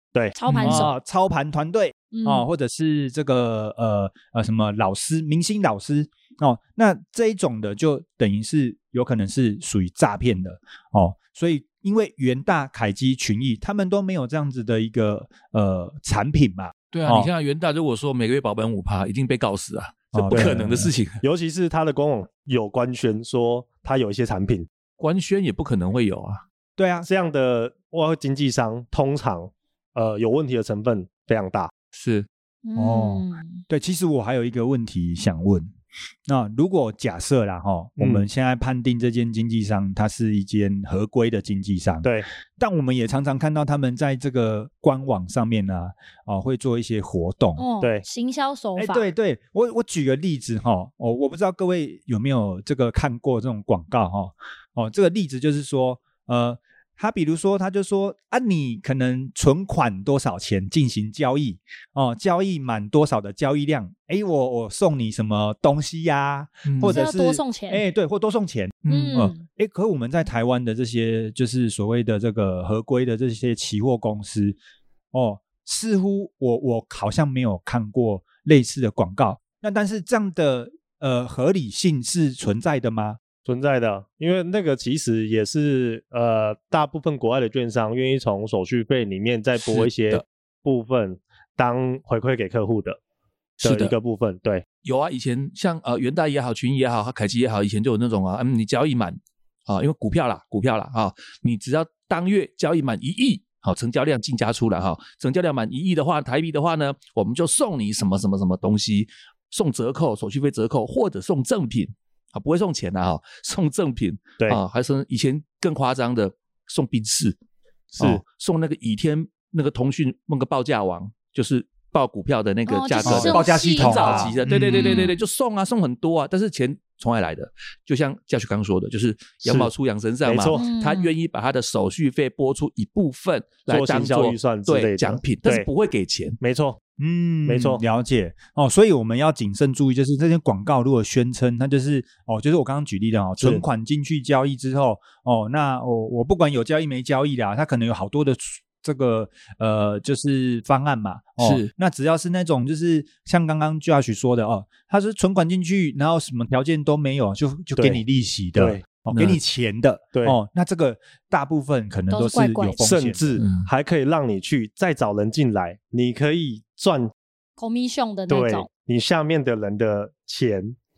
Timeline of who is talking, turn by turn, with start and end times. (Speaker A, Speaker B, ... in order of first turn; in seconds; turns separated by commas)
Speaker A: 0.3-1.0, Speaker B: 0.5-0.9, Speaker C: 0.6-17.3, Speaker A: 2.1-2.4, Speaker B: 16.9-21.2, Speaker C: 20.1-20.9, Speaker D: 20.3-20.6, Speaker D: 21.2-24.7, Speaker B: 25.0-26.4, Speaker C: 26.8-27.1, Speaker D: 27.0-31.7, Speaker B: 31.9-32.3, Speaker A: 32.6-33.6, Speaker C: 32.8-35.7, Speaker C: 36.3-47.6, Speaker D: 38.0-38.2, Speaker A: 47.6-49.0, Speaker C: 48.8-74.6, Speaker B: 66.6-67.0, Speaker A: 66.8-67.8, Speaker B: 68.8-69.2, Speaker A: 68.9-69.4, Speaker C: 75.1-83.2, Speaker D: 83.5-93.0, Speaker B: 89.6-90.2, Speaker D: 93.6-94.6, Speaker B: 93.6-93.9, Speaker B: 94.8-117.3, Speaker B: 118.0-136.4, Speaker A: 122.7-125.2, Speaker C: 123.0-125.1, Speaker D: 129.4-129.7, Speaker D: 130.2-130.6, Speaker A: 130.5-131.1, Speaker D: 133.7-135.7, Speaker D: 136.4-136.8, Speaker C: 137.0-163.4, Speaker D: 137.4-137.8, Speaker B: 151.4-151.7, Speaker D: 157.8-158.0, Speaker D: 158.6-159.3, Speaker A: 162.1-162.8, Speaker D: 162.8-167.1, Speaker B: 163.4-163.7, Speaker A: 167.6-168.7, Speaker D: 168.3-170.8